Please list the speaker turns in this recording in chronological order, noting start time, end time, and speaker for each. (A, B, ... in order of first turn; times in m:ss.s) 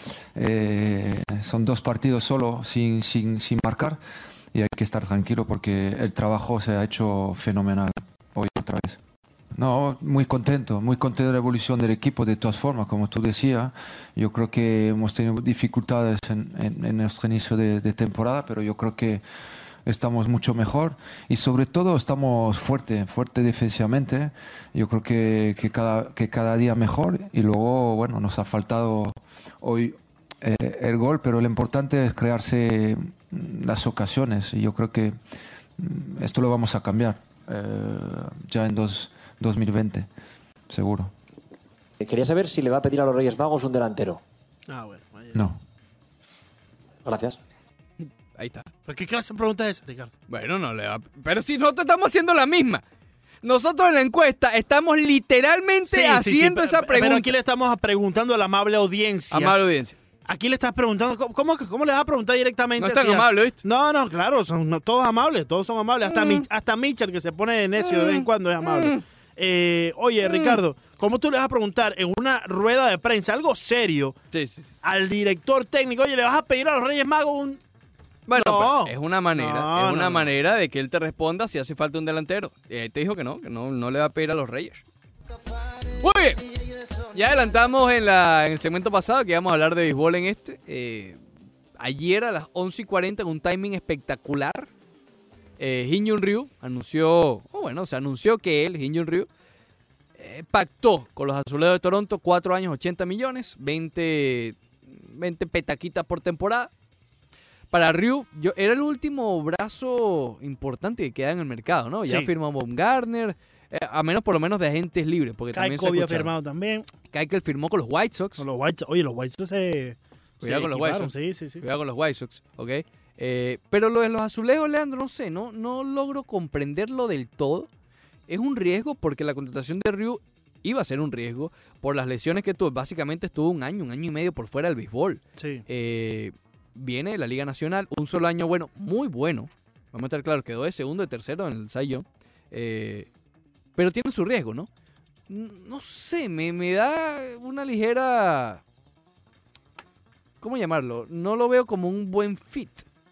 0:00.3-0:04.0 A
0:04.5-0:09.0 A
0:09.5-0:19.2 A
0:19.9-0:35.2 A
0:35.8-0:40.1 A
0:40.7-0:41.1 A
0:42.0-0:44.2 B
0:44.7-0:45.4 C
0:45.3-0:45.6 A
0:47.0-0:47.4 B
0:48.0-0:48.7 D
0:48.9-0:50.1 C
0:50.3-0:52.8 D
0:53.4-0:57.3 D
0:55.9-0:59.6 C
0:59.3-1:00.0 D
1:00.2-1:14.2 C
1:02.8-1:03.6 D
1:07.9-1:09.0 D
1:10.3-1:10.6 D
1:14.3-1:14.7 D
1:14.8-1:17.6 C
1:18.3-1:24.8 D
1:18.4-1:20.3 C
1:26.0-1:26.4 D
1:27.1-1:31.2 D
1:31.8-1:34.7 D
1:35.6-1:39.3 D
1:40.2-1:46.7 D
1:47.7-1:56.3 D
1:52.1-1:52.3 C
1:55.5-1:56.9 C
1:57.1-1:58.4 D
1:58.4-2:01.6 C
2:00.4-2:07.7 D
2:08.3-2:23.1 D
2:15.4-2:15.6 C
2:23.8-2:24.7 D
2:25.3-2:28.6 D
2:30.4-2:32.9 D